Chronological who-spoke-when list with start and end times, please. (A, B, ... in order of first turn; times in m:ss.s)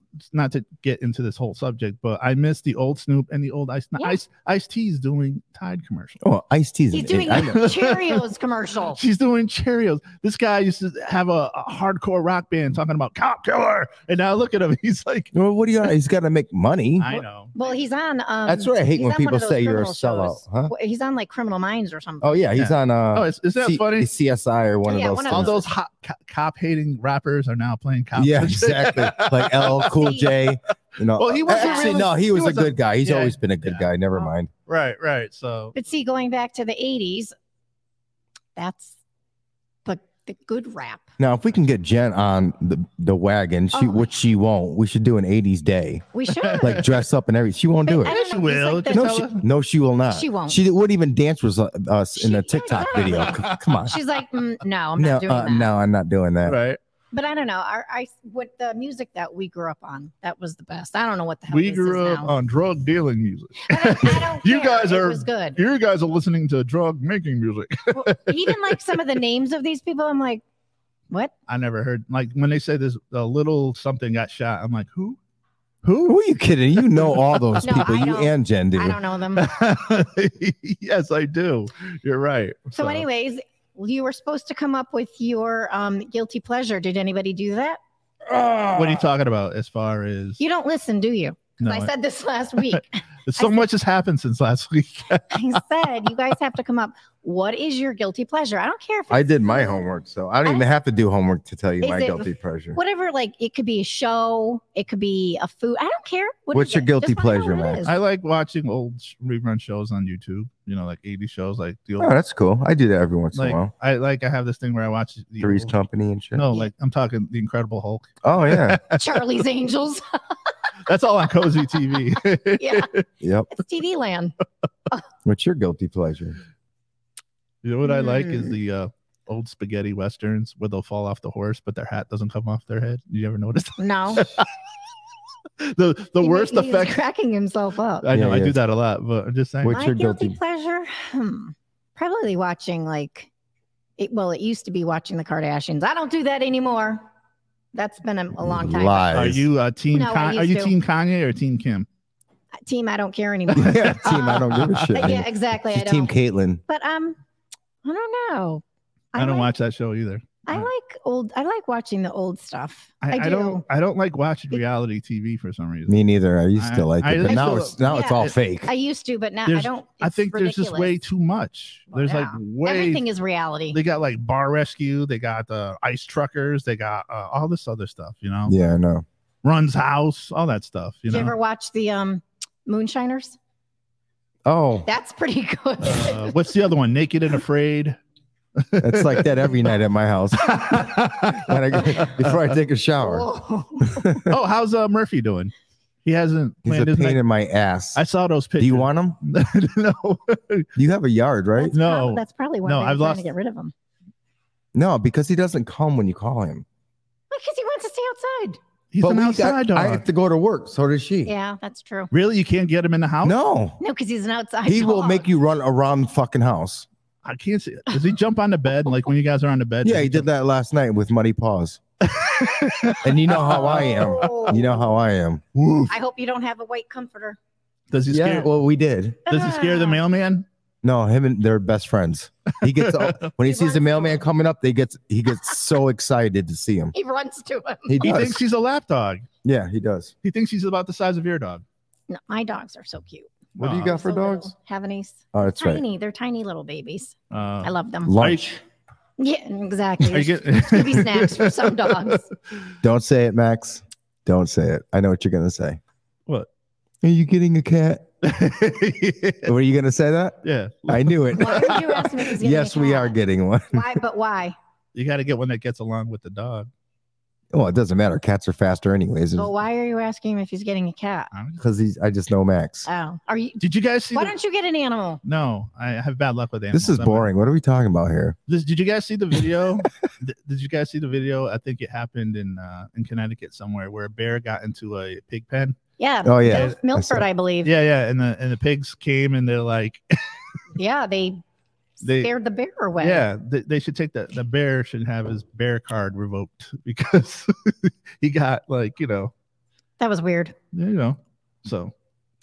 0:00.3-0:06.2 A
0:06.2-0:07.7 B
0:06.9-0:09.0 C
0:07.3-0:08.2 A
0:09.0-0:15.3 A
0:15.3-0:17.1 B
0:17.0-0:17.5 A
0:17.1-0:22.4 C
0:18.5-0:20.7 B
0:22.2-0:25.6 B
0:22.6-0:24.1 A
0:24.9-0:25.7 C
0:25.3-0:30.1 A
0:28.2-0:34.5 B
0:29.9-0:30.3 C
0:31.2-0:33.9 A
0:31.5-0:32.0 C
0:34.7-0:35.7 A
0:35.7-0:37.3 C
0:38.6-0:39.0 C
0:39.8-0:41.1 C
0:41.2-0:48.2 B
0:43.7-0:44.1 C
0:46.1-0:46.9 C
0:46.4-0:46.8 A
0:47.8-0:49.2 C
0:48.1-0:49.4 A
0:48.9-0:54.0 B
0:50.1-0:50.6 C
0:52.2-0:55.7 C
0:52.9-0:53.8 A
0:55.0-0:56.6 B
0:56.5-0:56.8 A
0:57.1-1:02.3 C
1:01.5-1:08.8 A
1:03.7-1:05.6 C
1:07.9-1:10.4 C
1:11.5-1:15.2 A
1:15.8-1:16.2 A
1:16.0-1:19.0 B
1:16.7-1:17.7 A
1:17.6-1:19.6 C
1:19.4-1:23.0 A
1:22.7-1:27.8 C
1:28.3-1:29.0 B
1:28.7-1:30.4 A
1:30.4-1:33.7 C
1:31.6-1:31.9 A
1:32.7-1:35.6 A
1:35.3-1:39.9 C
1:39.1-1:42.8 B
1:41.8-1:48.0 C
1:46.5-1:47.9 B
1:47.8-1:52.1 A
1:52.0-1:53.7 B
1:53.4-1:55.7 A
1:55.4-1:56.5 B
1:56.4-1:59.1 A
1:58.2-1:58.8 B
1:58.9-2:00.0 C
2:00.9-2:03.1 A
2:02.6-2:02.9 C
2:03.2-2:03.5 B
2:03.5-2:04.4 C
2:05.2-2:06.4 B
2:07.6-2:14.5 A
2:07.8-2:08.5 C
2:13.8-2:14.3 C
2:15.6-2:17.0 A
2:16.2-2:18.1 C
2:18.0-2:19.8 A
2:18.1-2:18.6 B
2:19.6-2:20.4 B
2:19.7-2:23.3 C
2:24.0-2:27.1 C
2:27.7-2:29.2 C
2:28.4-2:29.5 B
2:29.1-2:31.9 A
2:29.9-2:30.8 C
2:32.6-2:36.1 C
2:33.6-2:35.1 A
2:33.6-2:36.6 B
2:36.7-2:37.2 C
2:37.8-2:39.5 C
2:39.2-2:40.7 A
2:40.5-2:43.6 C
2:43.0-2:46.0 A
2:45.9-2:48.7 B
2:46.6-2:48.3 A
2:47.3-2:51.0 C
2:49.5-2:53.0 A
2:51.9-2:53.8 C
2:53.7-2:58.5 A
2:58.5-2:59.0 B
2:59.4-3:01.4 A
3:01.1-3:03.4 C
3:04.5-3:04.9 B
3:04.9-3:06.3 C
3:05.8-3:08.0 A
3:08.6-3:09.7 A
3:08.8-3:13.3 B
3:10.4-3:12.4 A
3:13.0-3:14.2 C
3:13.8-3:14.4 B
3:14.3-3:15.5 A
3:16.0-3:17.2 A
3:16.6-3:18.0 B
3:18.0-3:20.7 A
3:18.6-3:19.2 B
3:20.8-3:21.8 B
3:21.6-3:23.7 C
3:21.7-3:23.3 A
3:24.7-3:26.6 B
3:27.3-3:28.6 C
3:28.9-3:30.0 A
3:29.0-3:31.3 B
3:31.3-3:32.1 C
3:32.1-3:33.4 A
3:33.2-3:33.8 B
3:33.8-3:35.3 C
3:34.7-3:36.9 B
3:37.2-3:40.3 A
3:39.8-3:41.8 B
3:42.0-3:43.8 A
3:42.8-3:44.8 C
3:43.0-3:45.4 B
3:45.6-3:45.9 A
3:45.9-3:47.4 C
3:47.9-3:48.5 A
3:48.1-3:49.4 B
3:49.3-3:50.5 A
3:49.3-3:50.0 C
3:50.8-3:56.9 B
3:52.6-3:53.3 A
3:53.4-3:54.2 C
3:56.9-3:58.2 C
3:57.9-3:58.4 B
3:58.0-3:59.3 A
3:59.4-4:00.1 B
4:00.2-4:01.6 A
4:02.1-4:08.2 C
4:03.6-4:04.5 B
4:03.6-4:03.9 A
4:05.3-4:05.8 B
4:07.3-4:08.6 A
4:08.0-4:08.6 B
4:09.2-4:12.3 C
4:10.1-4:12.2 A
4:12.8-4:15.8 B
4:17.0-4:18.1 B
4:18.2-4:19.5 A
4:19.4-4:24.0 B
4:20.4-4:21.8 A
4:21.4-4:23.2 C
4:23.7-4:24.6 C
4:25.0-4:26.7 A
4:27.5-4:29.5 B
4:29.4-4:31.3 C
4:31.3-4:31.7 A
4:31.6-4:32.9 B
4:32.9-4:33.6 C
4:33.6-4:34.4 A
4:34.1-4:35.2 C
4:35.2-4:37.3 A
4:36.7-4:38.4 B
4:38.5-4:45.8 A
4:46.0-4:47.7 C
4:46.2-4:47.2 B
4:46.5-4:46.8 A
4:47.6-4:50.0 A
4:50.8-4:51.4 C
4:52.0-4:52.3 A
4:52.0-4:53.3 C
4:53.0-4:59.3 A
5:00.0-5:00.6 C
5:00.7-5:01.9 A